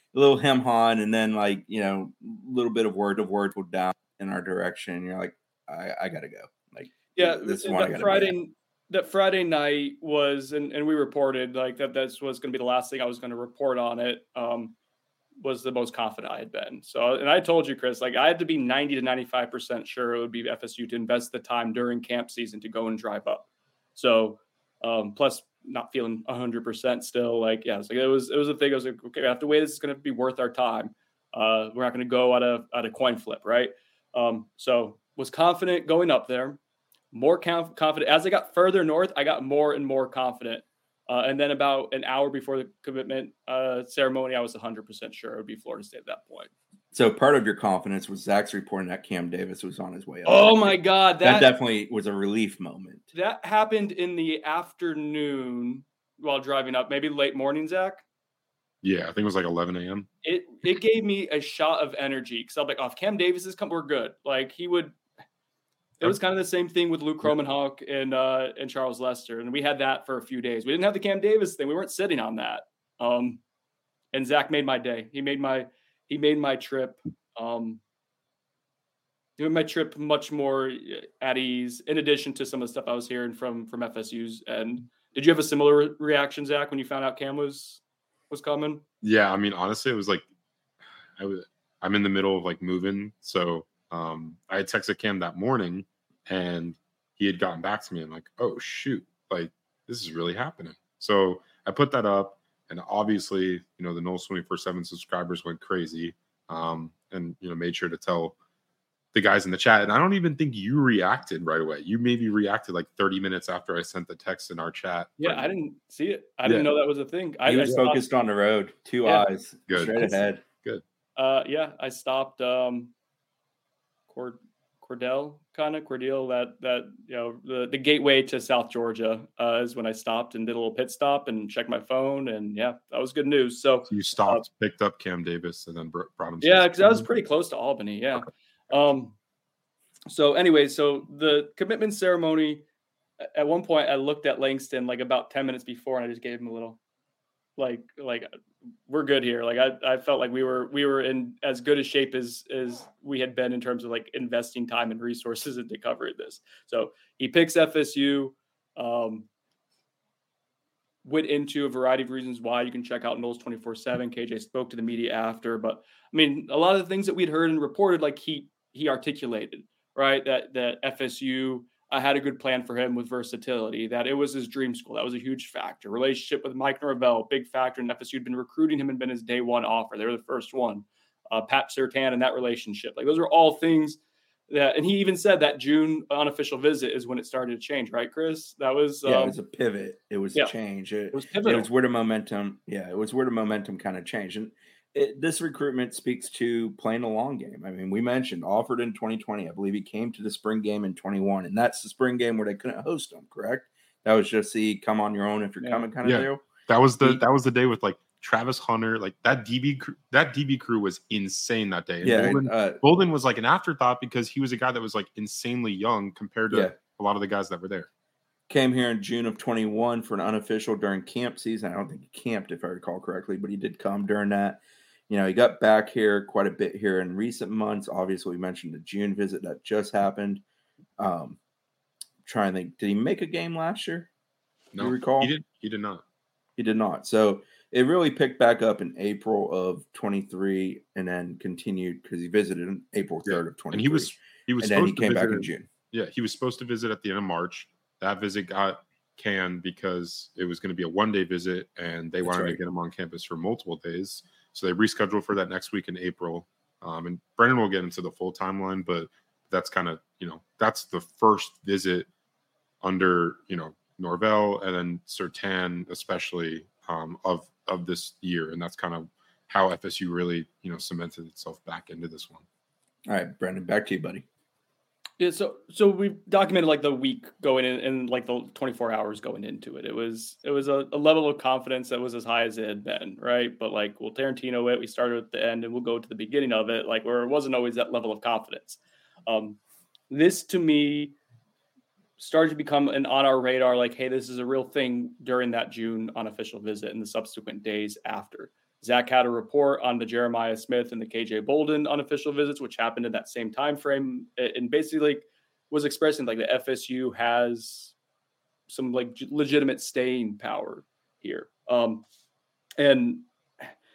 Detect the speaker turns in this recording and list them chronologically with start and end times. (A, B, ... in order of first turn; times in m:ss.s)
0:00.1-0:08.3 A
0:07.2-0:14.7 B
0:15.4-0:36.6 B
0:37.1-0:46.5 B
0:46.9-0:53.1 A
0:50.2-0:51.5 B
0:53.1-0:58.0 B
0:58.8-1:00.1 C
1:00.2-1:05.0 B
1:06.0-1:13.4 B
1:14.1-1:17.8 B
1:19.4-1:28.8 B
1:29.0-1:30.2 C
1:31.2-1:48.3 C
1:49.1-1:55.5 C
1:55.2-1:58.1 B
1:56.4-1:56.7 C
1:57.4-2:00.4 A
1:59.7-2:00.8 C
2:01.2-2:02.9 B
2:04.1-2:14.4 B
2:13.9-2:17.1 C
2:16.4-2:19.1 B
2:20.1-2:22.6 B
2:23.2-2:26.8 B
2:27.6-2:28.3 B
2:28.9-2:39.3 B
2:41.0-3:09.4 B
3:09.0-3:26.4 A
3:11.1-3:11.7 B
3:25.6-3:25.9 B
3:26.0-3:37.9 C
3:32.0-3:32.8 A
3:38.5-3:50.4 A
3:51.0-3:51.4 A
3:52.2-3:54.1 A
3:54.7-3:56.0 C
3:54.8-3:55.3 A
3:56.6-4:05.7 A
4:03.2-4:22.1 C
4:12.2-4:12.6 A
4:22.8-4:32.4 C
4:33.0-4:34.2 A
4:35.2-4:49.6 B
4:50.1-4:51.1 B
4:52.2-5:07.9 B
5:08.7-5:12.0 B
5:12.8-5:13.7 B